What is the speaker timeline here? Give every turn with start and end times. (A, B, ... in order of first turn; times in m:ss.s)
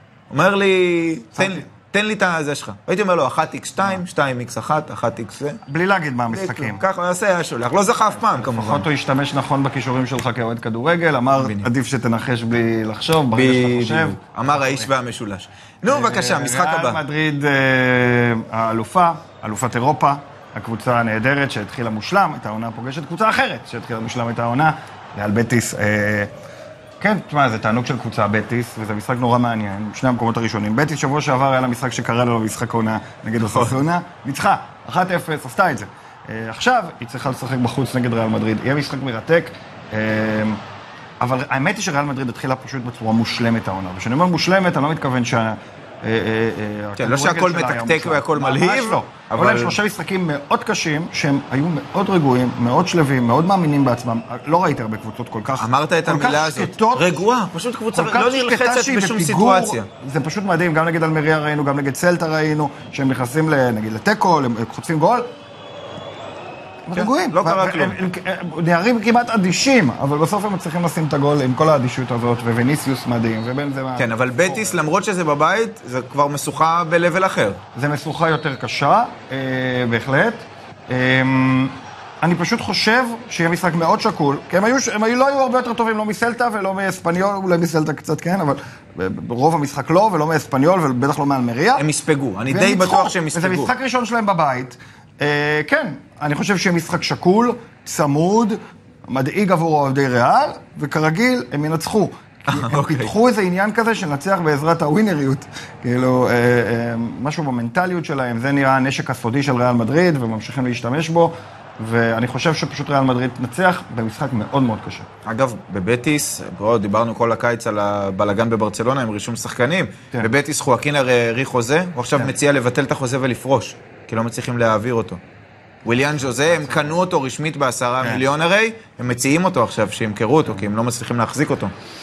0:00.3-0:05.6 A
0:01.4-0:01.6 B
0:05.6-0:06.8 B
0:06.3-0:08.9 A
0:08.2-0:14.9 B
0:11.4-0:11.7 A
0:13.3-0:17.0 A
0:15.8-0:26.3 B
0:27.0-0:40.6 B
0:41.2-0:57.2 B
0:47.0-0:49.8 A
0:55.6-0:59.9 A
0:57.9-1:05.3 B
1:06.9-1:14.8 B
1:06.9-1:08.0 A
1:14.0-1:17.6 A
1:17.8-1:31.8 B
1:31.8-1:33.7 A
1:32.5-1:55.1 B
1:42.5-1:43.1 A
1:55.2-2:05.2 A
2:05.8-2:11.7 A
2:06.5-2:07.0 B